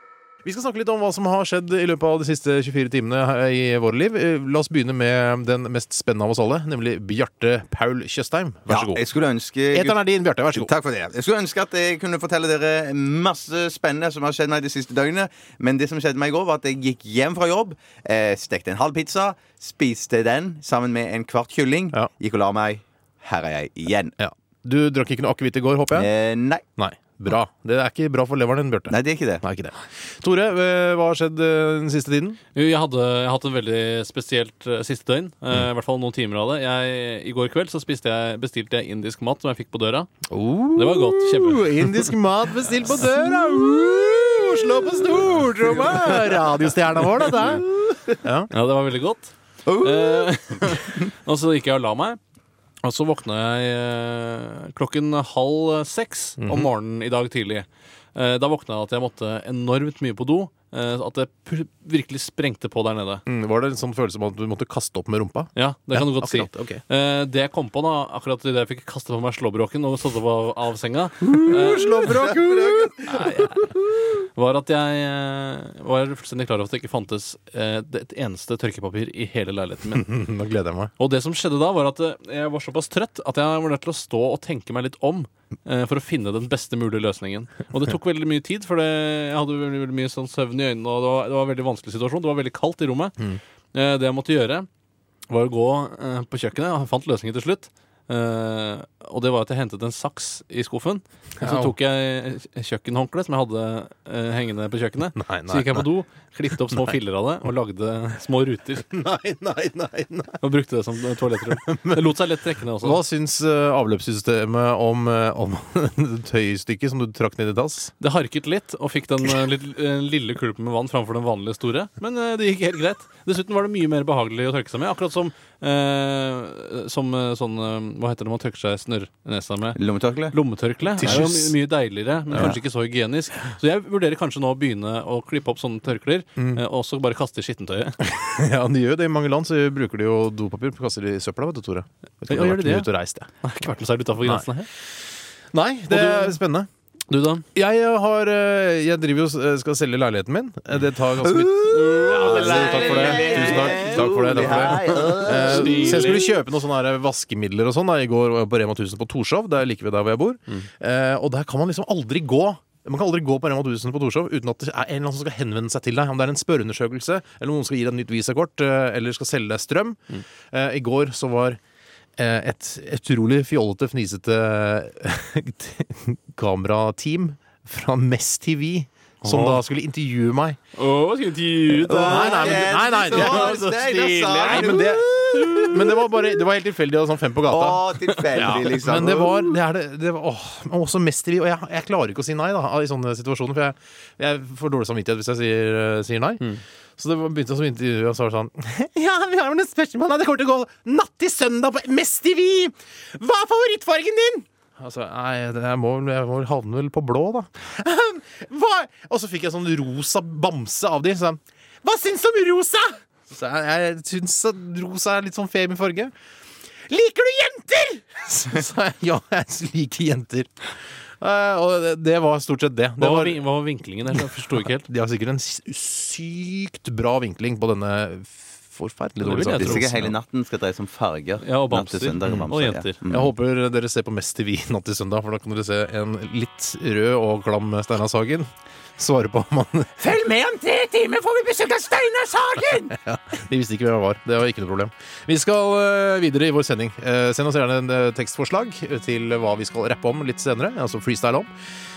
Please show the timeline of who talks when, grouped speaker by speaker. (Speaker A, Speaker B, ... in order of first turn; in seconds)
Speaker A: 0.4-9.0, 9.7-10.7, 24.2-26.1, 26.8-32.4, 40.3-47.6, 48.2-48.5, 56.4-56.7, 63.2-66.8, 71.2-73.7, 79.9-80.9, 101.4-101.7, 105.2-105.9, 108.9-110.4, 111.4-112.1, 112.8-117.9, 130.9-131.6, 132.3-132.6, 136.4-136.6, 138.0-143.3, 145.5-146.7, 147.5-171.6, 172.2-180.6, 181.7-196.4, 197.0-216.1, 216.9-220.5, 221.2-223.4, 224.8-230.1, 232.2-232.5, 233.0-240.0, 242.9-251.5
Speaker B: 8.7-10.0, 10.5-24.1, 25.9-26.6, 28.9-29.4, 49.7-50.3, 129.7-130.3, 151.3-156.2, 181.8-185.7, 187.5-189.5, 229.6-233.3, 240.1-242.4
Speaker C: 32.5-40.1, 40.7-42.1, 48.5-52.2, 52.8-63.2, 65.5-72.4, 73.0-80.1, 81.0-93.2, 93.7-94.7, 95.3-108.8, 110.4-113.0, 118.0-129.8, 130.3-138.0, 142.3-142.9, 143.4-144.7, 145.9-146.4, 147.1-147.5, 151.7-156.3, 179.2-179.6, 180.7-186.3, 223.0-224.9, 229.2-230.0, 231.4-233.0
Speaker D: 240.0-242.9